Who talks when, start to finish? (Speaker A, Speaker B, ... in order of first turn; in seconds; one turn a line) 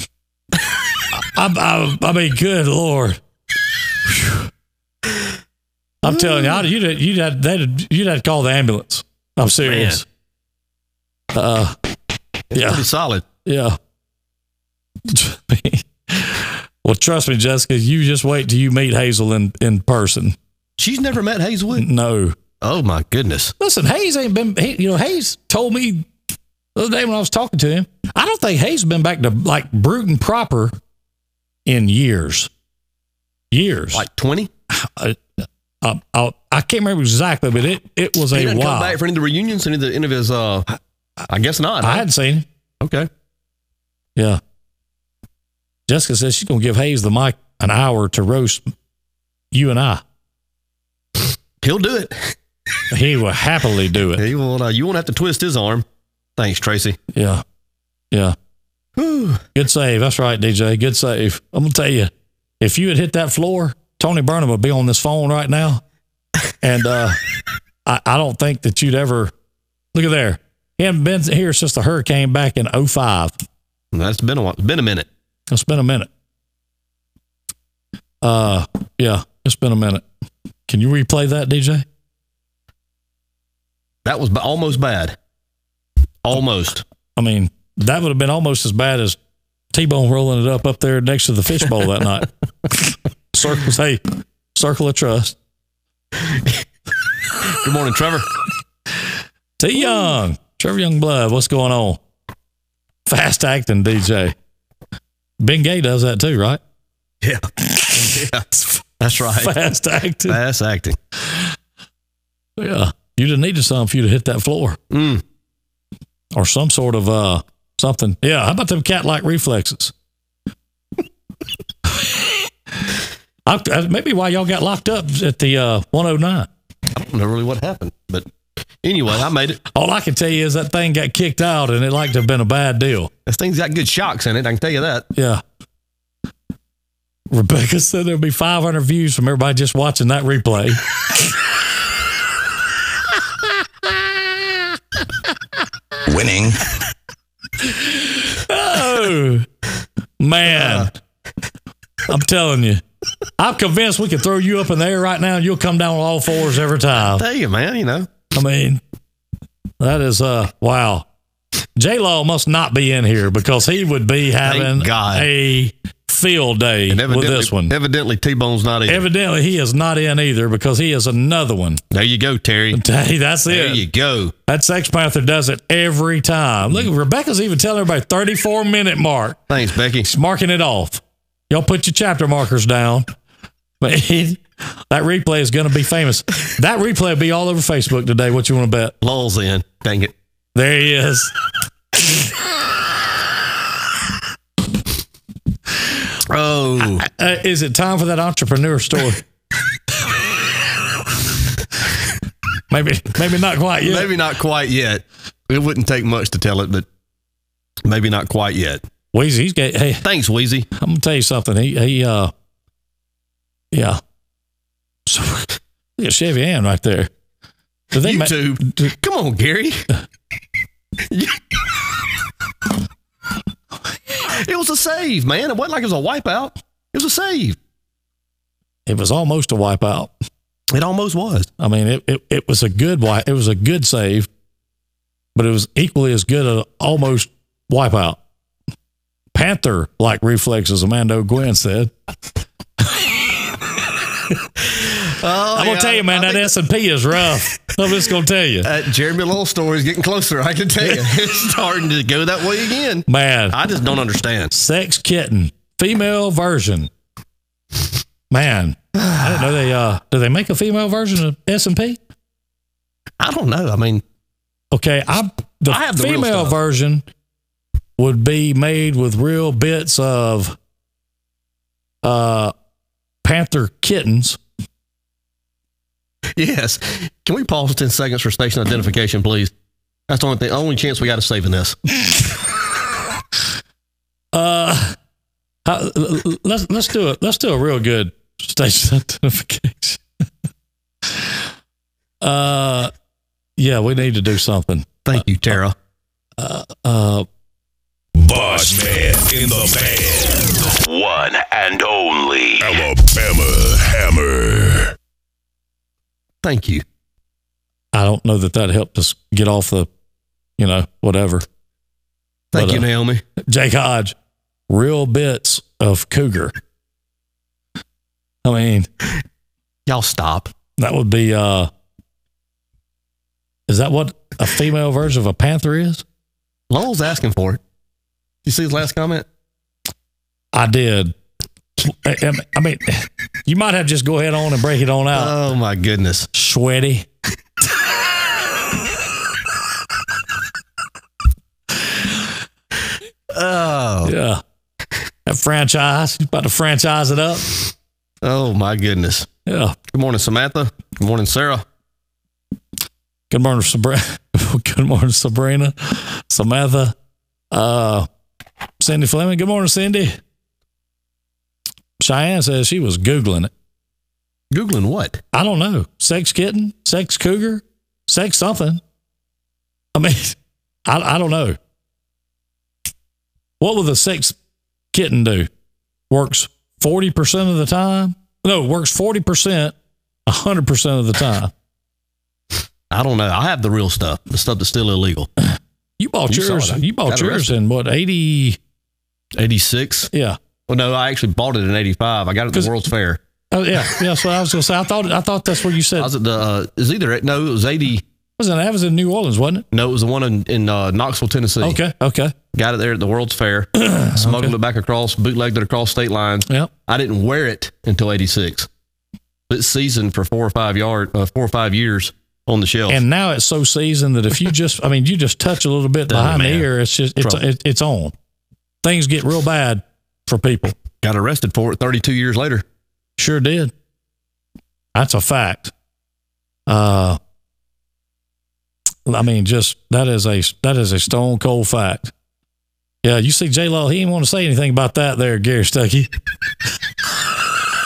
Speaker A: 1.1-3.2
Speaker A: 4.0-4.5
Speaker A: 6.0-10.0
Speaker B: 9.6-10.0
Speaker A: 11.3-11.8
Speaker B: 12.5-13.2
Speaker A: 12.5-12.8
Speaker A: 13.4-13.8
Speaker A: 15.1-20.4
Speaker B: 20.8-21.9
Speaker A: 21.7-22.4
Speaker B: 22.6-23.5
Speaker A: 23.6-26.1
Speaker A: 26.8-30.7
Speaker A: 31.6-32.5
Speaker A: 33.5-34.0
Speaker B: 33.9-34.5
Speaker A: 34.7-35.2
Speaker A: 35.8-39.0
Speaker B: 38.3-40.7
Speaker B: 41.3-42.0
Speaker A: 41.8-42.5
Speaker B: 42.8-43.1
Speaker A: 44.1-44.4
Speaker A: 45.9-48.7
Speaker A: 49.5-50.0
Speaker B: 51.6-52.3
Speaker A: 52.9-54.2
Speaker B: 54.2-55.8
Speaker B: 56.4-57.0
Speaker A: 57.1-57.4
Speaker B: 59.0-59.4
Speaker A: 59.5-65.8
Speaker A: 66.6-67.2
Speaker A: 67.8-69.3
Speaker A: 69.9-73.3
Speaker B: 73.9-75.1
Speaker A: 75.5-76.1
Speaker A: 78.2-80.0
Speaker A: 80.7-81.8
Speaker B: 84.0-85.1
Speaker B: 86.2-86.8
Speaker A: 87.2-89.2
Speaker A: 89.7-94.0
Speaker A: 94.5-95.3
Speaker B: 97.5-98.3
Speaker A: 99.6-102.0
Speaker A: 103.1-104.3
Speaker A: 105.4-106.6
Speaker B: 107.2-108.5
Speaker A: 107.8-108.0
Speaker B: 109.0-109.5
Speaker A: 109.3-110.4
Speaker B: 110.3-111.0
Speaker A: 112.6-114.8
Speaker B: 114.9-115.2
Speaker A: 116.3-119.9
Speaker A: 123.5-126.5
Speaker B: 126.9-128.3
Speaker B: 128.8-129.6
Speaker A: 129.7-133.1
Speaker B: 133.2-135.1
Speaker A: 135.1-135.4
Speaker A: 137.3-140.8
Speaker A: 143.9-144.6
Speaker A: 147.7-149.5
Speaker A: 150.2-150.9
Speaker B: 150.5-150.9
Speaker A: 152.1-152.8
Speaker A: 153.4-157.2
Speaker B: 157.1-158.1
Speaker A: 158.3-158.8
Speaker A: 159.8-161.1
Speaker A: 161.8-167.7
Speaker B: 164.4-165.3
Speaker B: 166.9-169.0
Speaker A: 168.9-171.8
Speaker B: 171.9-172.8
Speaker A: 172.7-173.8
Speaker B: 173.5-174.3
Speaker A: 174.5-179.4
Speaker B: 179.5-180.1
Speaker A: 180.0-183.1
Speaker A: 183.8-188.9
Speaker B: 189.0-190.1
Speaker A: 190.5-191.3
Speaker B: 196.3-197.1
Speaker A: 197.0-199.2
Speaker A: 202.7-204.1
Speaker B: 203.8-206.8
Speaker B: 207.8-208.8
Speaker A: 209.1-210.0
Speaker B: 210.0-210.7
Speaker A: 210.8-212.3
Speaker A: 213.7-214.0
Speaker A: 215.1-217.1
Speaker A: 217.9-218.5
Speaker B: 217.9-219.8
Speaker B: 221.1-221.3
Speaker B: 224.2-227.6
Speaker A: 228.8-230.1
Speaker B: 230.7-231.5
Speaker A: 231.6-234.3
Speaker A: 235.3-238.2
Speaker A: 239.3-241.9
Speaker B: 245.0-246.5
Speaker A: 245.5-248.7
Speaker B: 248.6-254.5
Speaker A: 253.1-253.6
Speaker A: 254.5-256.9
Speaker A: 258.3-262.0
Speaker B: 263.2-264.0
Speaker A: 264.7-267.0
Speaker B: 265.7-266.6
Speaker A: 268.0-270.6
Speaker A: 272.0-272.5
Speaker A: 273.2-274.4
Speaker B: 276.4-279.5
Speaker B: 280.1-281.8
Speaker A: 284.3-284.9
Speaker A: 285.6-290.0
Speaker A: 291.1-291.3
Speaker A: 292.2-292.9
Speaker A: 293.6-295.5
Speaker B: 295.1-295.7
Speaker A: 296.4-297.2
Speaker C: 298.1-304.9
Speaker B: 306.4-306.8
Speaker A: 307.9-309.9
Speaker A: 310.6-311.4
Speaker B: 312.5-313.2
Speaker A: 312.5-312.9
Speaker A: 313.4-314.1
Speaker A: 314.7-316.5
Speaker A: 318.4-318.9
Speaker B: 319.9-320.5
Speaker A: 320.8-321.7
Speaker A: 323.7-326.0
Speaker B: 326.7-327.6
Speaker B: 328.4-329.2
Speaker A: 330.5-331.1
Speaker A: 331.8-335.3
Speaker B: 335.1-336.3
Speaker A: 336.3-337.1
Speaker B: 343.3-344.1
Speaker A: 344.0-344.4
Speaker A: 345.2-347.5
Speaker B: 348.2-349.3
Speaker A: 349.4-349.8
Speaker B: 349.9-351.6
Speaker A: 353.3-356.9
Speaker A: 357.5-358.1
Speaker A: 358.8-360.2
Speaker A: 362.0-363.5
Speaker B: 364.5-365.2
Speaker A: 365.3-368.8
Speaker A: 369.9-371.6
Speaker A: 373.6-374.4
Speaker A: 374.9-375.5
Speaker A: 376.1-379.7
Speaker A: 380.2-381.5
Speaker B: 382.9-385.3
Speaker A: 386.0-388.6
Speaker B: 386.3-387.5
Speaker B: 389.4-390.1
Speaker A: 390.1-390.4
Speaker B: 390.7-393.2
Speaker A: 393.5-396.1
Speaker B: 396.0-398.0
Speaker A: 398.4-399.6
Speaker B: 399.7-401.8
Speaker A: 401.6-402.3
Speaker B: 402.5-408.7
Speaker A: 403.8-404.5
Speaker B: 409.5-413.0
Speaker A: 412.9-418.1
Speaker B: 416.1-416.7
Speaker A: 418.8-420.7
Speaker B: 421.0-422.6
Speaker A: 423.2-423.7
Speaker A: 424.9-425.7
Speaker A: 426.7-427.2
Speaker A: 429.1-432.1
Speaker A: 433.0-436.1